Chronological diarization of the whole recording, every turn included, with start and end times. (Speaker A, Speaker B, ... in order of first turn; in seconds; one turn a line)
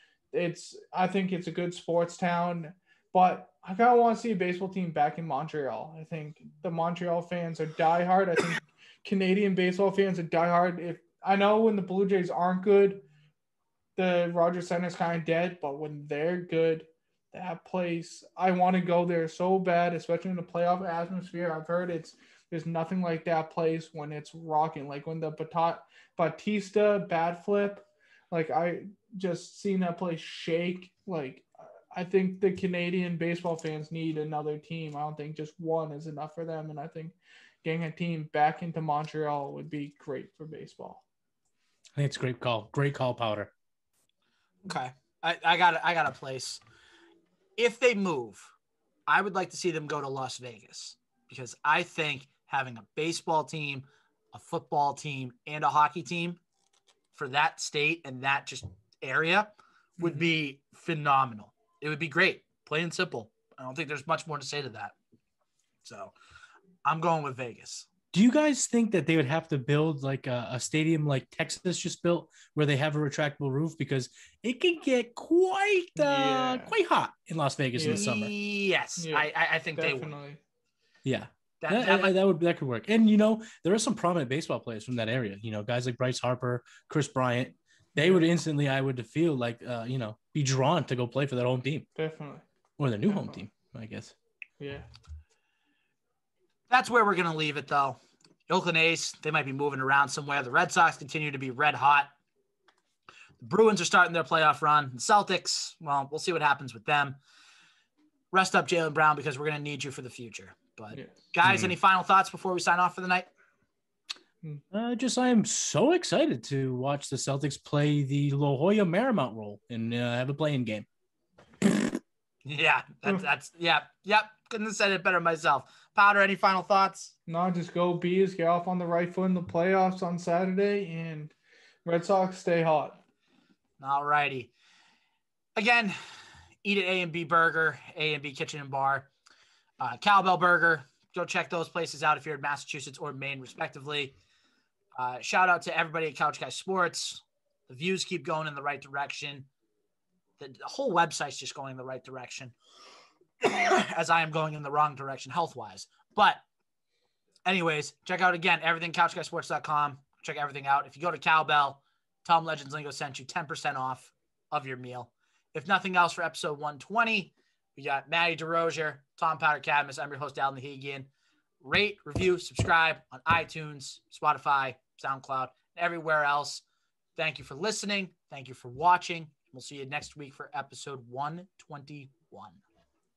Speaker A: 0.3-13.0
Speaker A: 13.9-41.0
Speaker B: 41.9-43.5
Speaker C: 44.6-46.6
Speaker C: 47.6-48.5
Speaker C: 49.1-56.4
Speaker C: 57.1-64.9
Speaker A: 60.0-60.2
Speaker C: 65.8-66.1
Speaker C: 66.8-67.9
Speaker B: 68.1-78.3
Speaker A: 76.0-76.7
Speaker A: 77.8-78.0
Speaker C: 77.8-80.1
Speaker A: 79.0-80.4
Speaker B: 81.0-91.8
Speaker C: 81.6-82.1
Speaker A: 88.0-88.2
Speaker A: 91.9-92.4
Speaker B: 92.8-94.1
Speaker A: 93.1-93.4
Speaker A: 94.6-94.9
Speaker C: 96.7-102.1
Speaker C: 103.4-107.2
Speaker C: 108.3-113.3
Speaker A: 110.9-111.2
Speaker B: 111.4-111.7
Speaker B: 114.7-120.8
Speaker C: 122.4-127.1
Speaker A: 127.3-131.3
Speaker A: 131.8-133.0
Speaker C: 133.8-134.5
Speaker C: 135.6-136.0
Speaker C: 136.6-139.1
Speaker C: 139.8-144.2
Speaker C: 144.9-149.5
Speaker C: 150.4-152.5
Speaker C: 153.4-156.4
Speaker C: 157.4-171.1
Speaker C: 171.6-176.6
Speaker C: 177.2-182.6